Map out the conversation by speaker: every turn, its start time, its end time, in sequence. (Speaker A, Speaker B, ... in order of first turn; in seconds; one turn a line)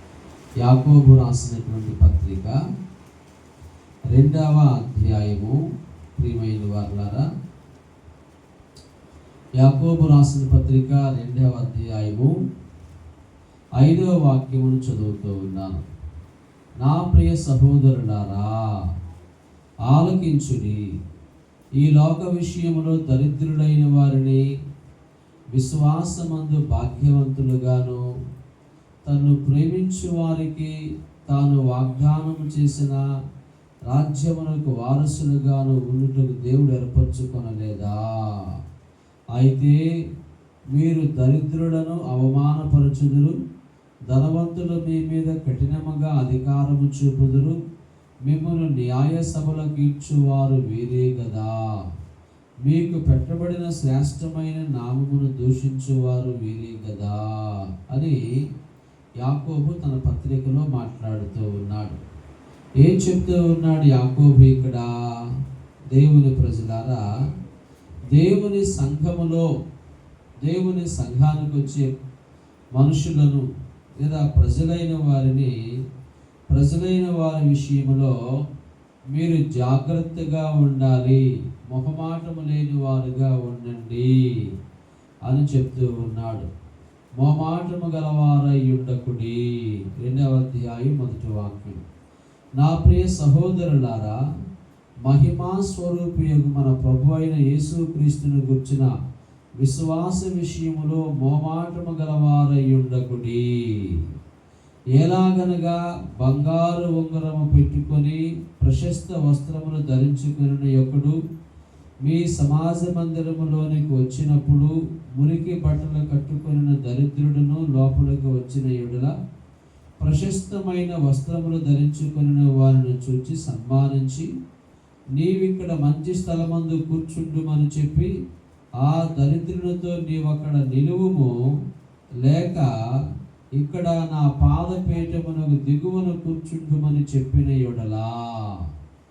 Speaker A: 0.6-2.6
Speaker A: 4.1-5.6
Speaker A: 6.2-7.2
Speaker A: 9.6-12.3
Speaker A: 13.8-15.8
Speaker A: 16.8-18.5
Speaker A: 19.9-20.8
Speaker A: 21.8-24.4
Speaker A: 25.5-28.0
Speaker A: 29.1-30.7
Speaker A: 31.3-33.0
Speaker A: 33.9-38.4
Speaker A: 39.3-39.8
Speaker A: 40.7-43.4
Speaker A: 44.1-47.6
Speaker A: 48.2-51.5
Speaker A: 52.6-58.2
Speaker A: 59.2-62.0
Speaker A: 62.8-64.8
Speaker A: 65.9-67.0
Speaker A: 68.1-69.5
Speaker A: 70.4-71.9
Speaker A: 72.8-73.4
Speaker A: 74.0-75.5
Speaker A: 76.5-78.1
Speaker A: 79.1-84.1
Speaker A: 85.3-86.5
Speaker A: 87.2-89.4
Speaker A: 90.0-91.8
Speaker A: 92.6-94.2
Speaker A: 95.0-98.9
Speaker A: 99.6-104.0
Speaker A: 105.0-111.2
Speaker A: 112.0-119.1
Speaker A: 120.0-124.3
Speaker A: 125.2-128.1
Speaker A: 128.8-131.4
Speaker A: 132.2-132.7
Speaker A: 133.6-138.6